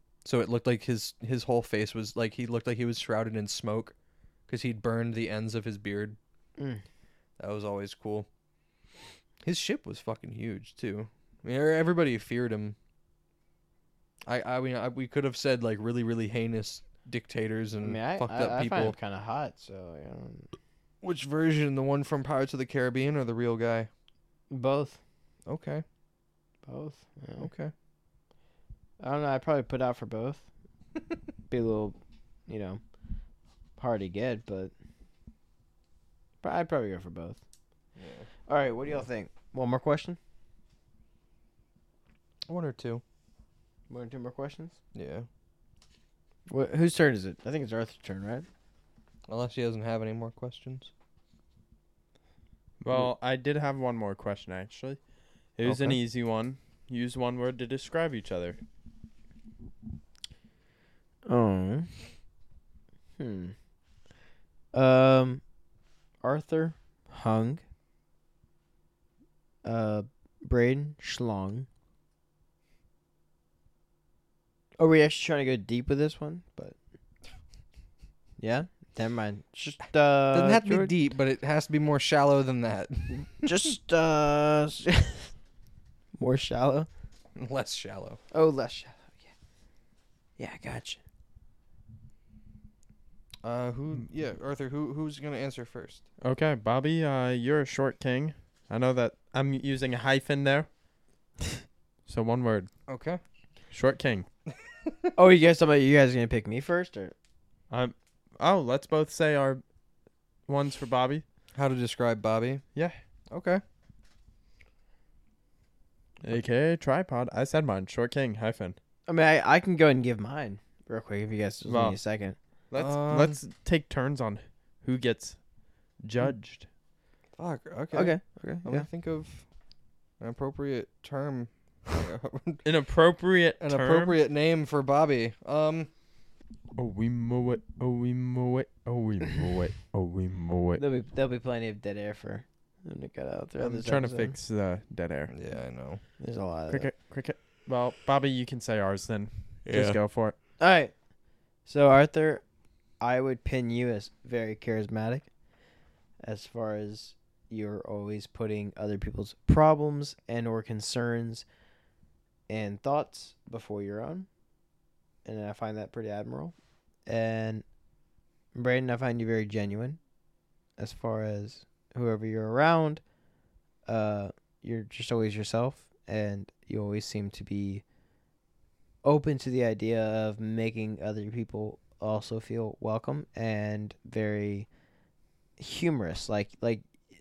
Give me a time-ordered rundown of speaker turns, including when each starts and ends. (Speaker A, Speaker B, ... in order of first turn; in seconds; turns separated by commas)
Speaker A: 0.2-3.9, Speaker A: 4.5-6.2, Speaker A: 7.4-8.3, Speaker A: 9.4-12.8, Speaker A: 14.3-18.9, Speaker B: 17.8-20.5, Speaker A: 21.0-23.9, Speaker B: 24.5-25.0, Speaker A: 25.5-25.8, Speaker B: 26.6-27.5, Speaker A: 27.4-27.7, Speaker B: 29.0-30.4, Speaker B: 31.5-32.8, Speaker B: 33.8-34.7, Speaker B: 36.4-37.4, Speaker A: 38.0-38.3, Speaker B: 38.5-40.2, Speaker A: 42.5-43.0, Speaker B: 43.9-44.8, Speaker A: 44.9-45.3, Speaker B: 46.5-48.5, Speaker A: 49.3-50.9, Speaker C: 52.8-55.0, Speaker C: 55.6-58.6, Speaker B: 55.7-56.0, Speaker B: 61.3-61.9, Speaker B: 63.2-63.5, Speaker B: 64.7-65.4, Speaker B: 66.2-67.6, Speaker B: 69.6-71.7, Speaker B: 74.8-76.8, Speaker B: 78.4-80.9, Speaker A: 80.3-83.5, Speaker B: 83.4-85.3, Speaker B: 86.2-86.9, Speaker A: 87.3-88.2, Speaker B: 88.3-89.3, Speaker B: 90.4-91.0, Speaker A: 93.4-96.0, Speaker C: 96.2-100.7, Speaker C: 102.1-102.7, Speaker A: 102.9-103.2, Speaker C: 103.7-104.2, Speaker A: 104.8-105.1, Speaker B: 105.2-107.1, Speaker C: 107.7-109.6, Speaker C: 110.5-111.2, Speaker A: 111.5-112.6, Speaker A: 113.3-113.6, Speaker C: 116.2-118.8, Speaker B: 119.1-122.3, Speaker C: 121.7-122.0, Speaker C: 122.7-125.4, Speaker A: 122.8-123.4, Speaker C: 126.0-126.7, Speaker A: 127.4-129.5, Speaker B: 127.9-128.8, Speaker A: 130.2-132.6, Speaker C: 132.6-134.2, Speaker A: 133.6-135.9, Speaker C: 136.8-140.8, Speaker B: 140.8-144.3, Speaker C: 143.6-145.3, Speaker A: 145.3-146.0, Speaker B: 146.2-146.9, Speaker C: 146.7-150.3, Speaker B: 150.6-150.9, Speaker B: 151.6-152.4, Speaker B: 153.0-155.3, Speaker B: 156.2-161.4, Speaker B: 162.5-164.3, Speaker B: 165.2-166.5, Speaker B: 167.1-167.6, Speaker B: 168.5-170.0, Speaker B: 170.8-173.0, Speaker B: 173.9-177.8, Speaker B: 179.0-184.7, Speaker B: 185.6-186.8